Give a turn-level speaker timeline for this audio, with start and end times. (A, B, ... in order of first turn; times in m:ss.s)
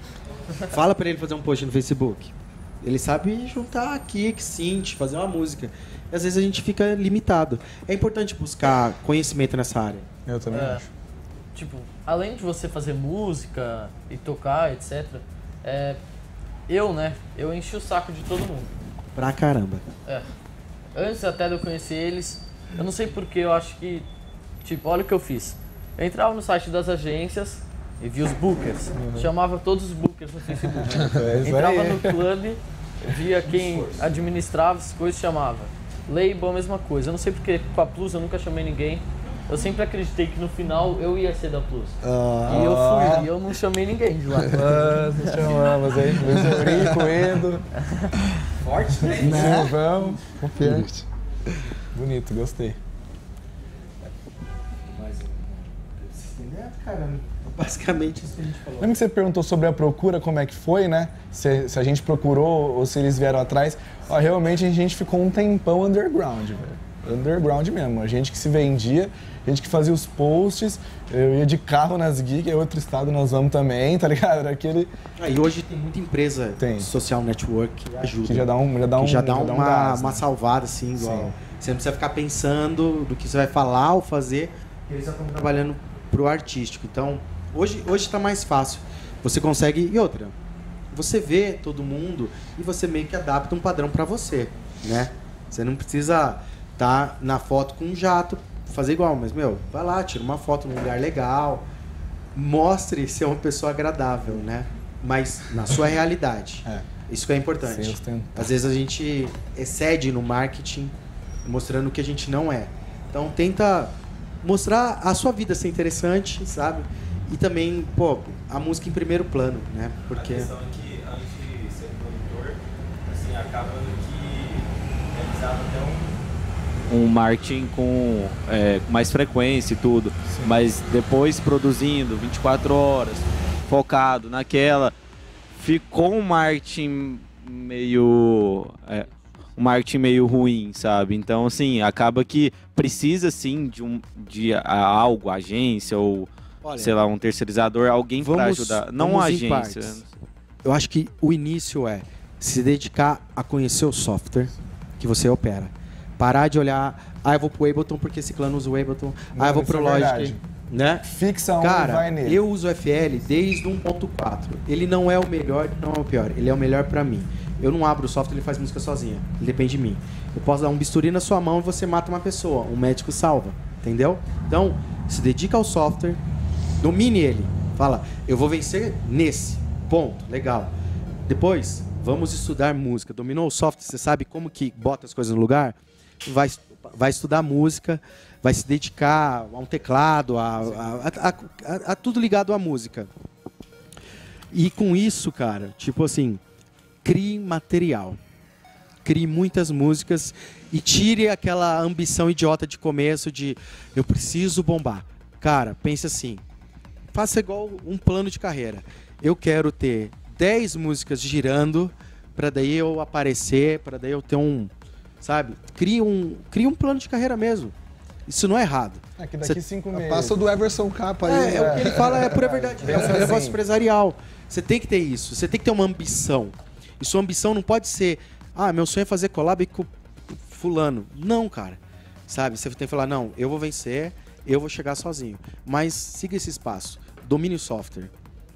0:00.7-0:10.0 A
0:10.3-0:10.9 B
0:10.5-0:10.8 C
0:11.6-0:16.0 C
0:16.7-0:18.7 C
0:19.2-0:19.8 A
0:21.0-0:24.0 C
0:24.6-0:45.3 C
0:29.0-0:29.3 B
0:30.7-0:32.2 B
0:42.0-0:42.6 D
0:42.4-0:43.3 B
0:44.5-0:47.7 B
0:46.3-0:47.0 D
0:48.6-0:49.7 A
0:49.0-0:50.9 B
0:49.2-0:49.8 D
0:50.4-0:51.0 D
0:51.9-0:52.8 B
0:54.9-0:59.0 A
0:58.8-1:14.9 B
1:15.2-1:30.3 A
1:16.6-1:16.9 B
1:18.2-1:20.2 B
1:21.0-1:21.3 B
1:30.9-1:41.7 A
1:42.3-1:50.9 A
1:47.6-1:48.4 B
1:51.4-2:00.5 A
2:00.1-2:06.1 E
2:06.9-2:14.9 E
2:10.3-2:10.5 B
2:15.6-2:30.1 E
2:26.6-2:27.0 A
2:28.2-2:30.0 A
2:30.6-2:41.0 A
2:39.3-2:40.4 B
2:41.0-2:42.4 B
2:41.6-2:56.2 A
2:56.8-3:00.7 A
3:01.3-3:13.1 A
3:14.5-3:16.4 A
3:17.0-3:18.2 A
3:19.0-3:26.4 A
3:27.1-3:37.7 A
3:38.3-3:39.6 A
3:39.2-3:40.4 B
3:39.9-3:43.4 D
3:41.2-3:58.1 A
3:41.5-3:43.6 B